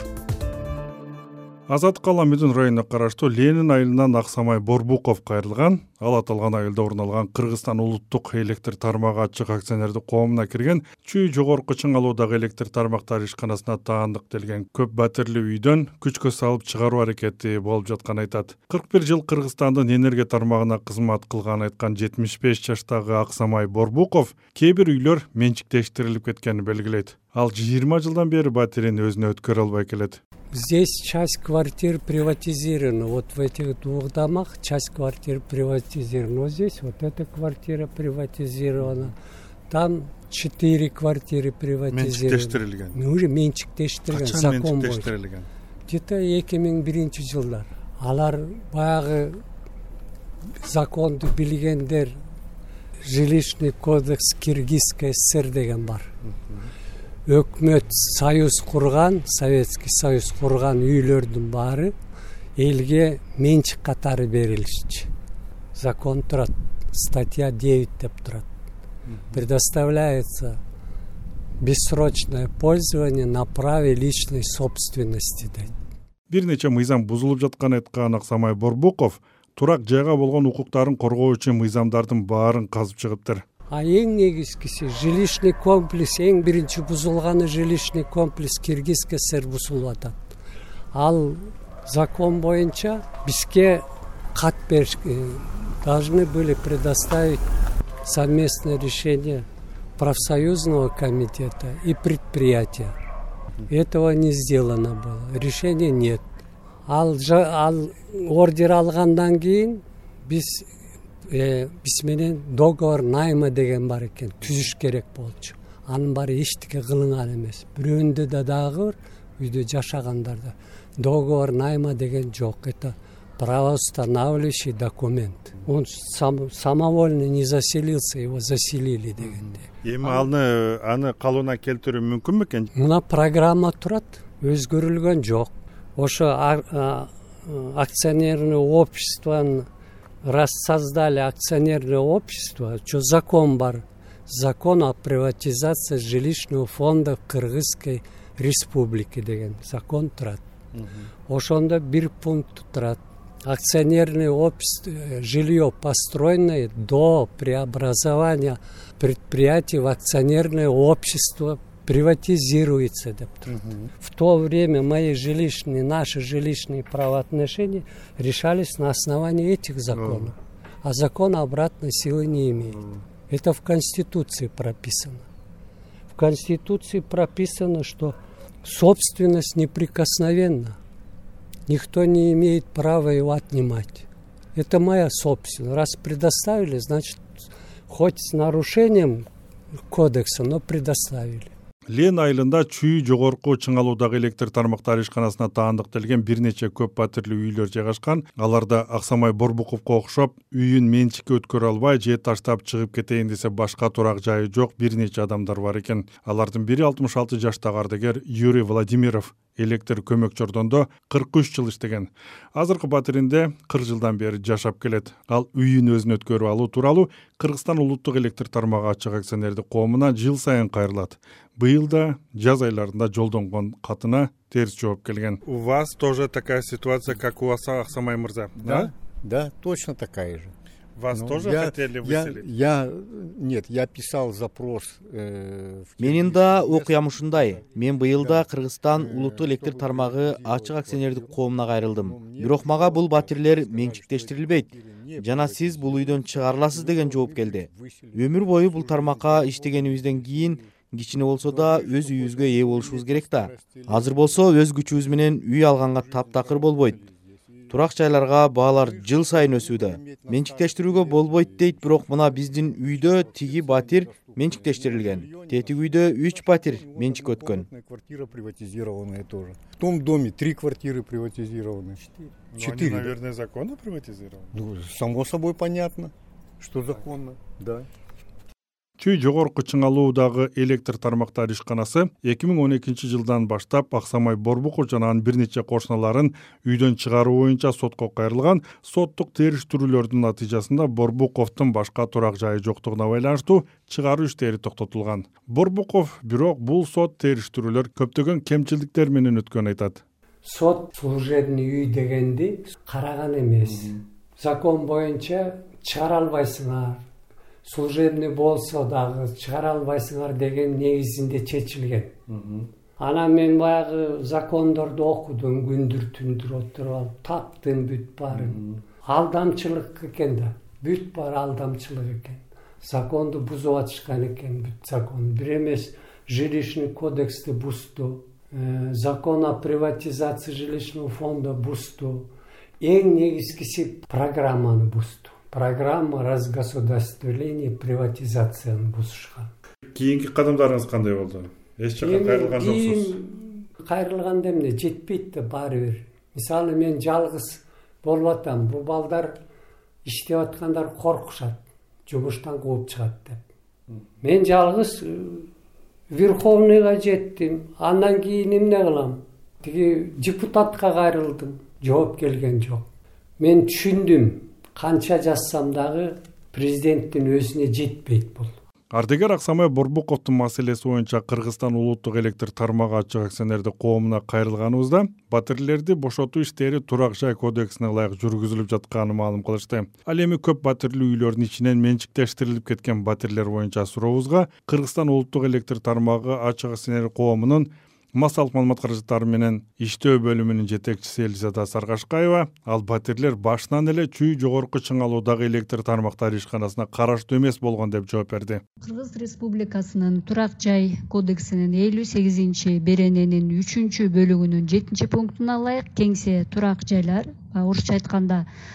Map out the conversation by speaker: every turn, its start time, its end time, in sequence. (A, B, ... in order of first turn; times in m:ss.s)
0:01.7-0:30.2 A
0:30.5-0:39.2 B
0:38.8-0:39.1 A
0:39.7-0:45.1 B
0:41.9-0:43.0 A
0:44.1-0:45.5 A
0:45.9-0:49.4 B
0:50.6-0:52.2 B
0:53.0-0:56.1 B
0:57.3-1:01.9 B
1:02.6-1:05.1 B
1:05.7-1:08.5 B
1:09.3-1:10.6 B
1:11.6-1:15.7 B
1:16.3-1:23.4 A
1:23.7-1:30.2 B
1:30.9-1:37.4 B
1:38.0-1:39.5 B
1:40.0-1:43.0 B
1:43.7-1:46.2 B
1:46.9-1:50.7 B
1:51.3-2:10.3 B
2:09.8-2:12.7 A
2:12.7-2:19.7 B
2:20.2-2:30.4 B
2:30.8-2:31.1 A
2:31.3-2:55.3 B
2:43.5-2:43.9 A
2:49.9-2:50.3 A
2:52.8-2:53.0 A
2:56.1-3:00.8 B
3:01.7-3:07.2 B
3:07.9-3:09.3 B
3:09.9-3:11.5 B
3:11.9-3:48.9 A
3:48.6-3:50.5 C
3:51.0-3:52.4 A
3:51.1-4:10.7 C
3:56.0-4:17.0 D
4:11.4-4:17.8 C
4:17.7-4:27.7 D
4:18.6-4:33.1 C
4:32.5-4:34.6 A
4:34.5-4:37.9 C
4:39.0-5:00.0 A
5:00.4-5:07.0 B
5:07.6-5:12.2 B
5:12.3-5:12.6 A
5:13.0-5:32.3 B
5:18.3-5:18.8 A
5:32.8-5:39.5 B
5:39.9-5:43.2 A
5:42.0-5:49.4 B
5:50.1-5:53.4 B
5:54.2-5:55.5 B
5:56.1-6:02.9 B
6:03.4-6:08.5 B
6:08.9-6:38.6 A
6:38.8-6:48.5 E